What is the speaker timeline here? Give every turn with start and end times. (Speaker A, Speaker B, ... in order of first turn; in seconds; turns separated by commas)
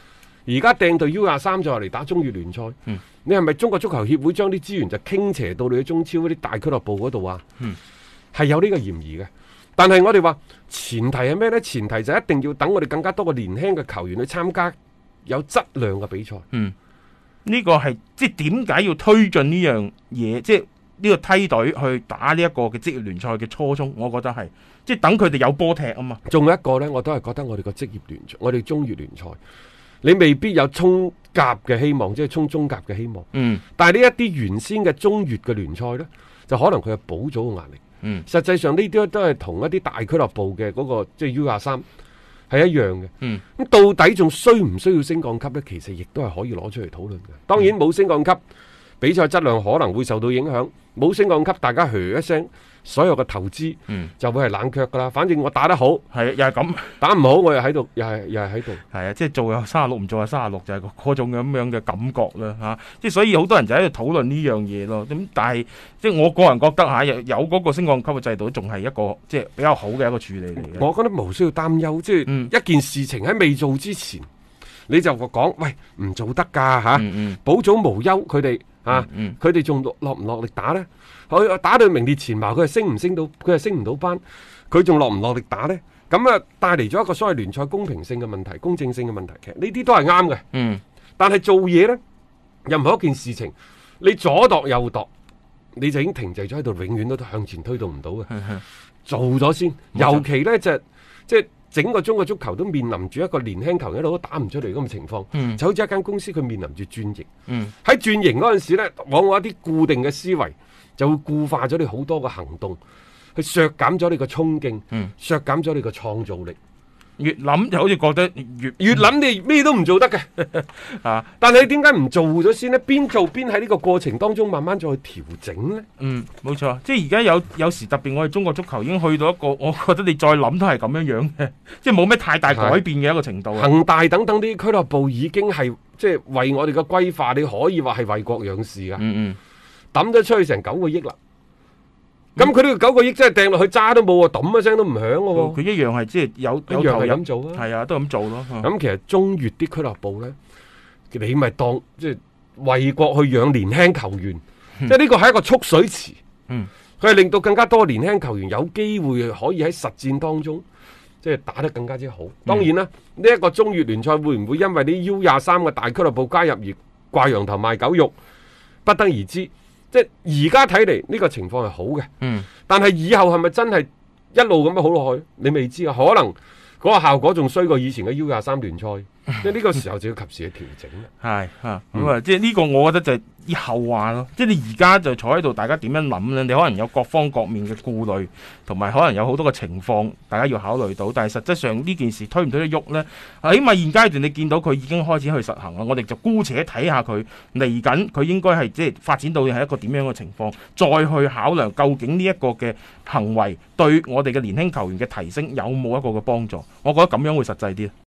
Speaker A: 0.5-7.4, Speaker A: 8.3-16.4, Speaker B: 17.4-26.2, Speaker A: 26.2-29.4, Speaker A: 30.0-41.8, Speaker B: 33.3-33.6, Speaker A: 42.5-48.4, Speaker A: 49.0-56.0, Speaker B: 56.1-56.9, Speaker A: 57.0-58.8, Speaker B: 58.9-70.8, Speaker A: 70.7-74.3, Speaker B: 72.3-72.5, Speaker A: 74.9-90.4, Speaker B: 76.9-77.4, Speaker B: 78.9-79.4, Speaker B: 90.5-90.8, Speaker A: 91.2-92.0, Speaker A: 92.6-95.1, Speaker A: 95.7-98.3, Speaker B: 98.3-98.6, Speaker A: 99.0-107.3, Speaker B: 99.9-100.3, Speaker B: 105.3-105.6, Speaker A: 107.8-112.8, Speaker A: 113.3-116.5, Speaker B: 117.2-119.0, Speaker A: 118.8-120.5, Speaker B: 120.7-121.3, Speaker A: 121.4-125.8, Speaker B: 126.0-133.7, Speaker A: 132.4-132.8, Speaker A: 133.5-139.0, Speaker B: 139.0-139.4, Speaker A: 139.9-141.2, Speaker A: 142.4-145.6, Speaker B: 145.3-148.7, Speaker A: 146.7-147.6, Speaker A: 148.6-150.3, Speaker A: 151.1-156.2, Speaker A: 157.0-160.6, Speaker A: 161.2-168.2, Speaker A: 168.8-172.1, Speaker B: 172.2-172.5, Speaker A: 172.7-181.1, Speaker B: 181.2-207.9